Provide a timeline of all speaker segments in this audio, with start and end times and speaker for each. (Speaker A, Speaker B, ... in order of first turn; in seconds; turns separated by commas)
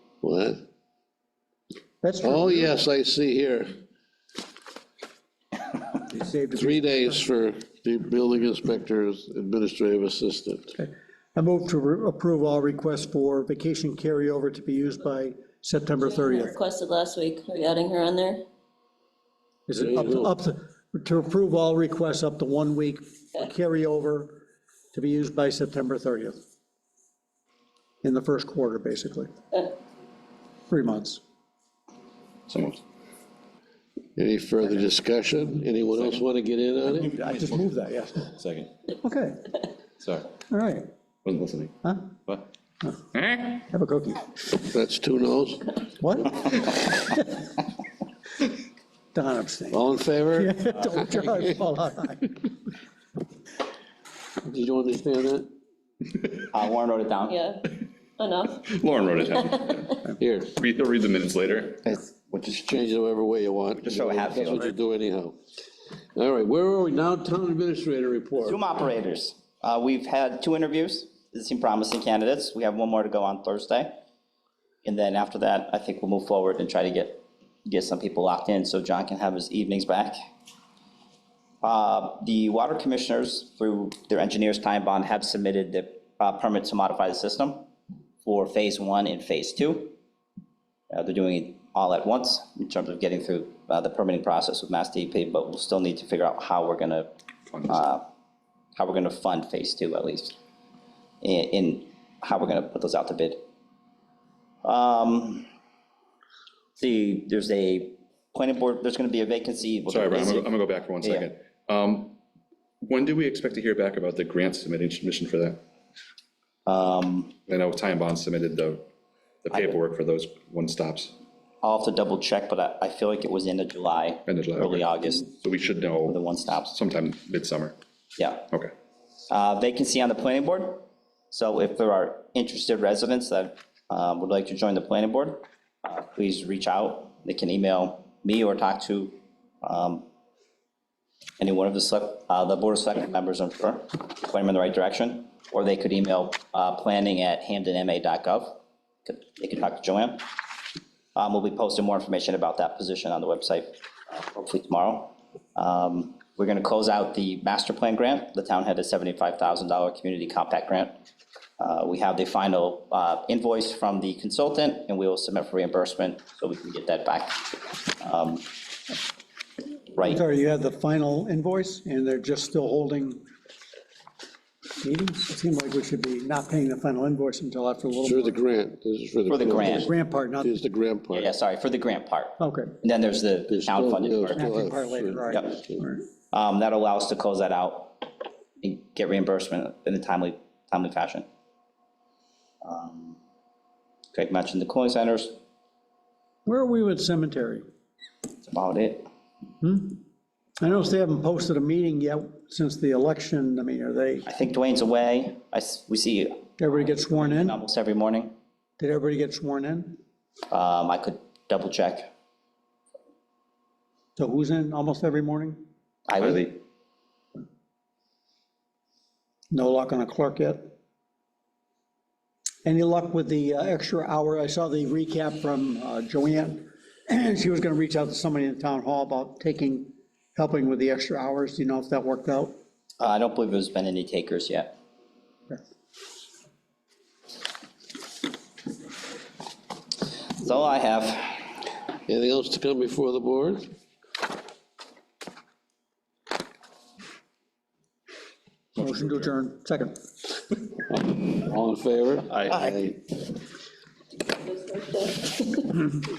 Speaker A: 0.2-0.6, Speaker B: 2.0-2.8, Speaker A: 2.2-3.8, Speaker B: 6.1-7.2, Speaker A: 6.5-10.7, Speaker B: 10.7-16.6, Speaker C: 16.0-18.4, Speaker B: 19.7-24.4, Speaker A: 19.8-20.3, Speaker B: 24.9-26.4, Speaker B: 28.0-29.3, Speaker B: 30.7-31.2, Speaker D: 32.5-32.8, Speaker A: 34.2-37.1, Speaker D: 35.9-36.2, Speaker D: 37.0-37.6, Speaker B: 37.0-38.3, Speaker D: 38.2-38.7, Speaker B: 39.0-39.5, Speaker D: 40.0-40.3, Speaker B: 40.5-40.9, Speaker D: 41.2-42.4, Speaker D: 43.1-43.6, Speaker B: 43.5-44.3, Speaker A: 44.6-45.8, Speaker B: 46.0-47.4, Speaker B: 49.1-52.3, Speaker A: 49.7-51.3, Speaker A: 54.4-55.5, Speaker E: 56.5-57.4, Speaker C: 57.3-59.8, Speaker D: 58.6-62.0, Speaker A: 60.2-60.5, Speaker E: 61.9-62.7, Speaker A: 62.5-65.3, Speaker E: 63.8-64.7, Speaker A: 66.2-68.6, Speaker E: 68.4-74.0, Speaker E: 74.8-80.2, Speaker E: 81.6-87.7, Speaker E: 88.2-89.9, Speaker E: 90.9-97.1, Speaker D: 97.5-97.8, Speaker E: 97.7-98.0, Speaker E: 98.8-100.3, Speaker E: 101.2-103.4, Speaker E: 104.6-105.5, Speaker E: 106.8-110.5, Speaker D: 109.9-112.2, Speaker E: 111.0-111.3, Speaker D: 112.8-115.6, Speaker E: 116.7-117.3, Speaker D: 117.5-118.8, Speaker D: 119.4-121.1, Speaker E: 121.6-125.3, Speaker D: 124.2-127.7, Speaker E: 126.0-126.7, Speaker E: 128.2-128.5, Speaker E: 129.3-140.0, Speaker E: 141.4-150.2, Speaker E: 151.1-160.9, Speaker E: 161.6-168.5, Speaker E: 169.9-170.2, Speaker B: 170.0-173.2, Speaker B: 174.8-178.4, Speaker A: 178.0-181.3, Speaker E: 179.3-179.9, Speaker B: 179.6-180.5, Speaker E: 181.1-184.4, Speaker B: 182.4-182.7, Speaker A: 183.5-185.8, Speaker B: 184.3-186.0, Speaker E: 185.3-185.6, Speaker E: 186.3-188.0, Speaker E: 188.6-191.2, Speaker E: 192.6-193.2, Speaker E: 194.1-195.3, Speaker B: 196.4-197.6, Speaker E: 198.5-199.1, Speaker B: 199.6-200.0, Speaker B: 200.6-204.2, Speaker E: 204.2-208.3, Speaker B: 206.6-207.6, Speaker B: 208.8-210.0, Speaker E: 210.5-212.1, Speaker B: 214.2-215.6, Speaker E: 216.1-216.6, Speaker B: 219.5-220.7, Speaker B: 222.6-232.5, Speaker E: 233.0-234.7, Speaker E: 240.4-241.5, Speaker A: 242.1-243.6, Speaker B: 248.8-250.0, Speaker A: 250.9-253.0, Speaker D: 252.3-252.6, Speaker C: 254.2-255.9